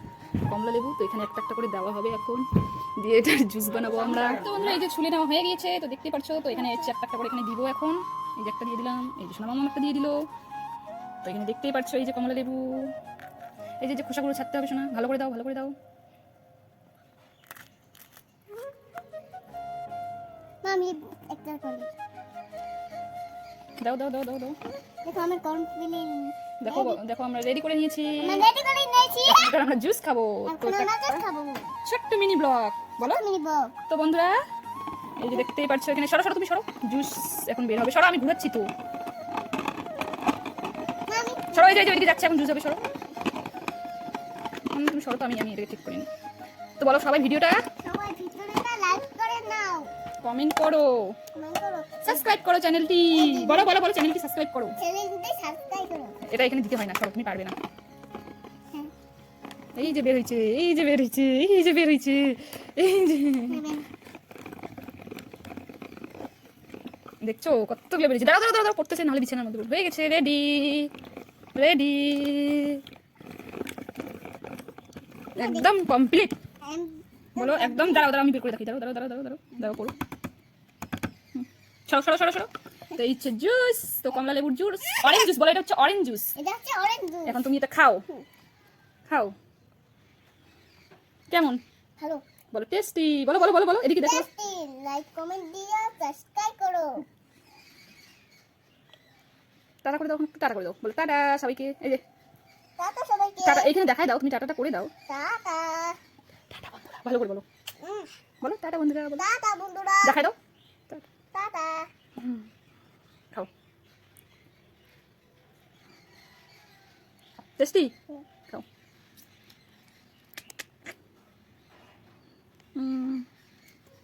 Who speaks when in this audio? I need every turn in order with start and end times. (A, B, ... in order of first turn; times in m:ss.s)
0:00.5-0:02.4 A
0:03.0-0:10.2 A
0:11.2-0:12.9 A
0:13.8-0:15.7 A
0:20.6-0:21.9 B
0:23.8-0:24.6 A
0:24.8-0:27.0 B
0:26.6-0:28.4 A
0:28.2-0:29.5 B
0:29.2-0:31.2 A
0:30.5-0:31.7 B
0:31.8-0:33.2 A
0:33.0-0:33.7 B
0:33.9-0:34.4 A
0:35.2-0:38.7 A
0:41.1-0:41.9 B
0:41.5-0:42.8 A
0:44.7-0:46.1 A
0:46.8-0:47.6 A
0:47.8-0:49.9 B
0:50.2-0:51.2 A
0:51.3-0:52.3 B
0:52.0-0:54.8 A
0:53.1-0:53.7 B
0:54.8-0:56.2 B
0:56.2-0:57.6 A
0:59.8-1:03.6 A
1:03.5-1:03.9 B
1:07.2-1:10.9 A
1:11.5-1:12.8 A
1:15.4-1:15.7 B
1:15.4-1:16.3 A
1:16.6-1:18.1 B
1:17.4-1:19.9 A
1:21.3-1:26.3 A
1:26.4-1:27.4 B
1:27.2-1:28.0 A
1:29.1-1:29.3 A
1:31.3-1:31.6 A
1:32.5-1:34.2 A
1:34.0-1:37.0 B
1:39.8-1:42.0 A
1:42.8-1:43.8 B
1:43.4-1:44.9 A
1:45.1-1:46.0 B
1:46.5-1:47.4 A
1:47.8-1:48.1 B
1:48.4-1:49.3 A
1:49.2-1:50.2 B
1:50.0-1:50.3 A
1:51.3-1:51.9 B
1:57.6-1:57.9 A
2:02.8-2:03.2 A